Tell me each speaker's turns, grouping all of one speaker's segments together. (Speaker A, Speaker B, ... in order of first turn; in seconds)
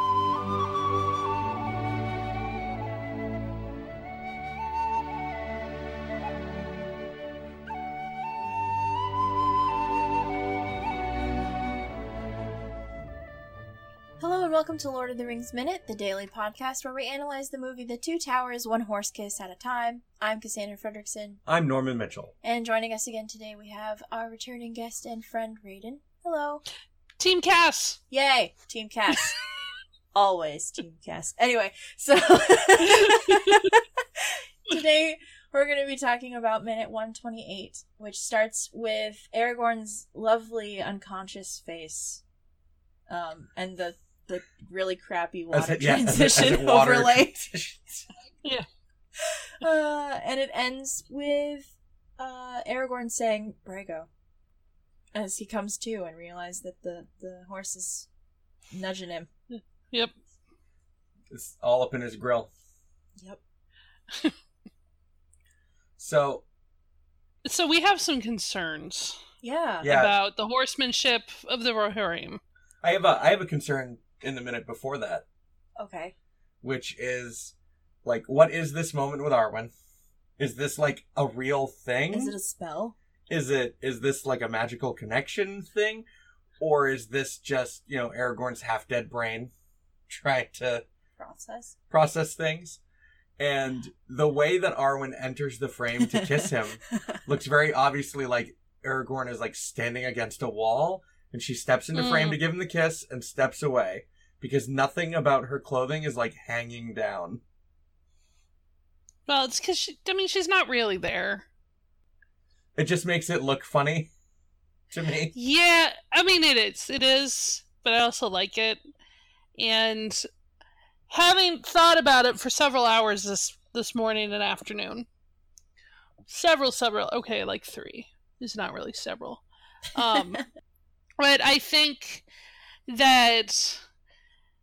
Speaker A: 14.2-21.4, 22.4-26.6, 28.1-29.4, 30.1-33.8, 34.6-42.2, 43.1-47.5, 49.6-54.1, 55.1-58.1, 58.7-59.3, 69.4-69.9, 75.8-76.1, 82.1-83.0, 91.2-91.8, 96.0-97.2
Speaker B: 21.4-22.3, 45.5-48.0, 61.3-62.5, 66.0-66.4, 69.8-70.2, 72.8-75.2, 76.6-77.5, 78.0-79.7, 80.4-82.3, 83.3-86.0, 86.6-89.5, 90.1-90.8, 91.9-92.8, 93.4-107.4, 112.8-114.1, 114.9-115.3
Speaker C: 27.2-28.0, 59.5-60.1, 67.4-69.2, 69.8-72.4, 101.9-102.4, 109.3-111.5, 115.3-118.8, 119.6-120.2, 121.1-125.0, 126.3-130.5, 131.2-132.2, 132.9-133.8